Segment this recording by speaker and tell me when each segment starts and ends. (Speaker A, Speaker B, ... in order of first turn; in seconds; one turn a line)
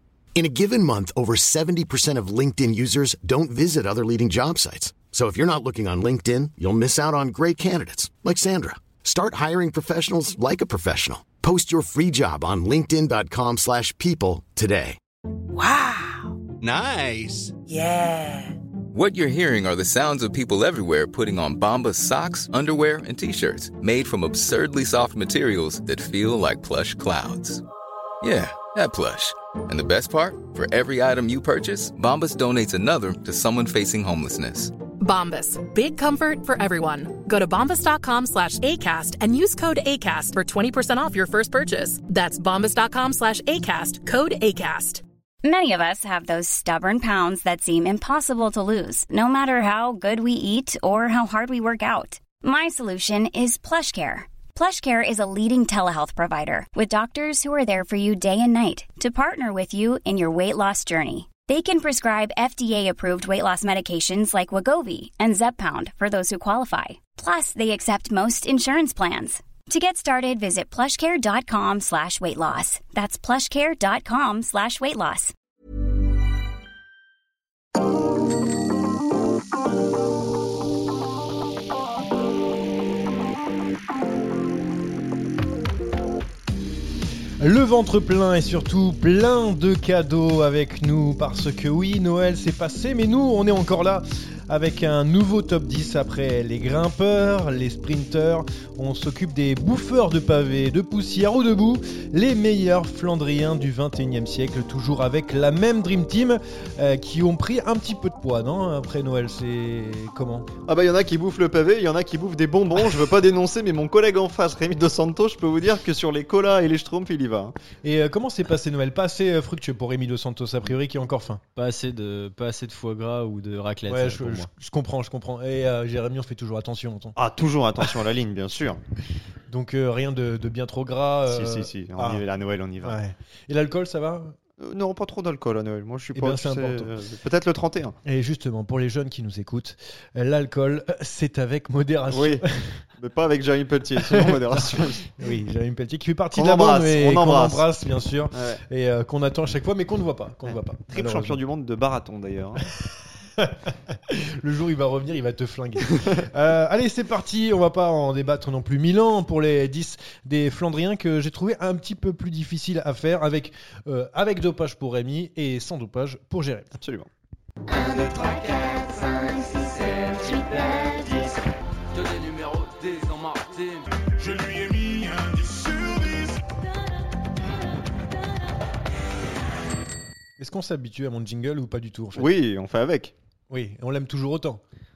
Speaker A: 0.3-15.0
Speaker B: 15.5-16.4
Speaker A: 16.8-17.4
Speaker B: 17.6-18.5
Speaker C: 18.9-27.6
Speaker C: 28.2-34.7
Speaker D: 35.0-45.0
Speaker E: 45.4-75.3
Speaker F: 87.4-110.5
Speaker G: 110.7-117.5
Speaker F: 117.8-121.4
Speaker H: 121.5-124.5
Speaker F: 123.9-127.2
Speaker G: 127.2-128.8
Speaker F: 129.5-132.2
Speaker G: 131.3-133.0
Speaker F: 132.8-134.3
Speaker G: 134.6-137.9
Speaker F: 136.1-136.9
Speaker F: 138.0-142.8
Speaker G: 142.1-142.4
Speaker G: 143.0-145.1
Speaker F: 143.9-151.4
Speaker G: 146.3-147.7
Speaker G: 148.3-148.6
Speaker G: 150.4-152.7
Speaker F: 152.8-166.7
Speaker G: 166.7-167.1
Speaker B: 167.7-171.3
Speaker B: 172.2-173.6
Speaker I: 172.5-173.4
Speaker I: 174.2-176.2
Speaker F: 180.4-182.3
Speaker G: 182.2-183.1
Speaker F: 183.5-184.6